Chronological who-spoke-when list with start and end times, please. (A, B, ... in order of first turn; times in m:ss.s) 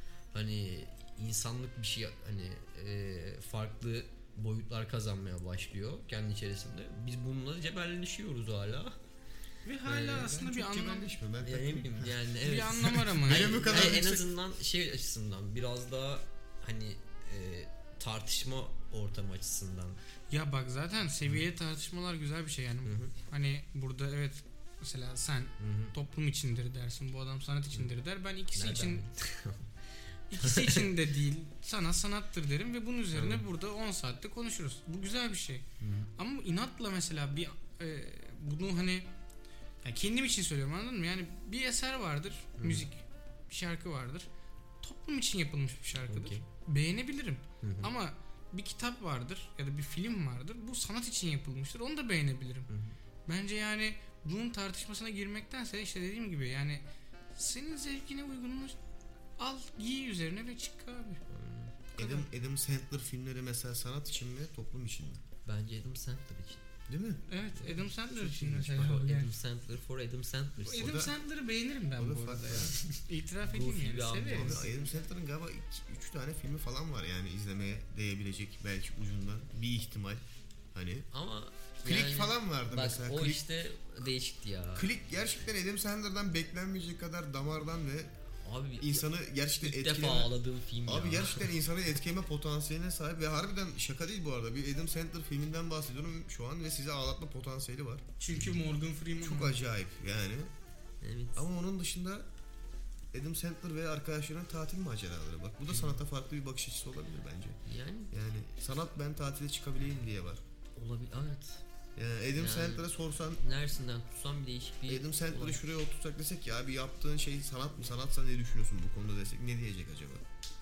0:00.3-0:09.0 A
0:09.6-0:11.1 B
0:09.9-0:10.3 A
0:09.9-0:12.2 C
0:11.4-0:20.0 A
0:12.4-0:14.0 B
0:13.1-0:14.2 C
0:20.3-0:29.0 B
0:22.8-0:23.1 A
0:25.6-0:25.9 A
0:28.5-0:30.9 A
0:30.3-0:35.6 B
0:33.1-0:33.4 A
0:35.8-0:36.1 A
0:36.2-0:39.1 B
0:39.8-0:44.3 B
0:42.6-0:42.9 A
0:44.8-0:52.7 B
0:46.1-0:46.4 A
0:47.6-0:47.9 A
0:52.7-0:53.0 A
0:53.3-0:56.8 B
0:57.4-0:58.8 B
0:59.4-1:01.2 B
1:01.3-1:01.8 A
1:02.0-1:02.3 B
1:02.0-1:05.2 C
1:05.4-1:06.6 A
1:06.9-1:07.2 C
1:07.3-1:09.3 B
1:07.6-1:11.0 A
1:10.6-1:14.6 B
1:10.7-1:11.1 C
1:12.0-1:12.8 C
1:13.4-1:14.9 A
1:14.3-1:20.2 C
1:20.7-1:21.1 C
1:21.1-1:24.9 A
1:21.8-1:23.4 C
1:24.7-1:28.1 C
1:28.4-1:29.1 A
1:28.8-1:30.3 C
1:29.6-1:31.5 A
1:30.8-1:38.0 C
1:38.2-1:39.6 B
1:39.2-1:40.5 C
1:41.0-1:41.4 A
1:41.4-1:42.2 C
1:43.1-1:47.6 C
1:45.7-1:46.0 A
1:47.6-1:48.1 A
1:48.1-1:50.4 C
1:50.8-1:51.6 A
1:52.0-1:53.4 C
1:52.4-1:55.6 A
1:54.9-2:00.2 C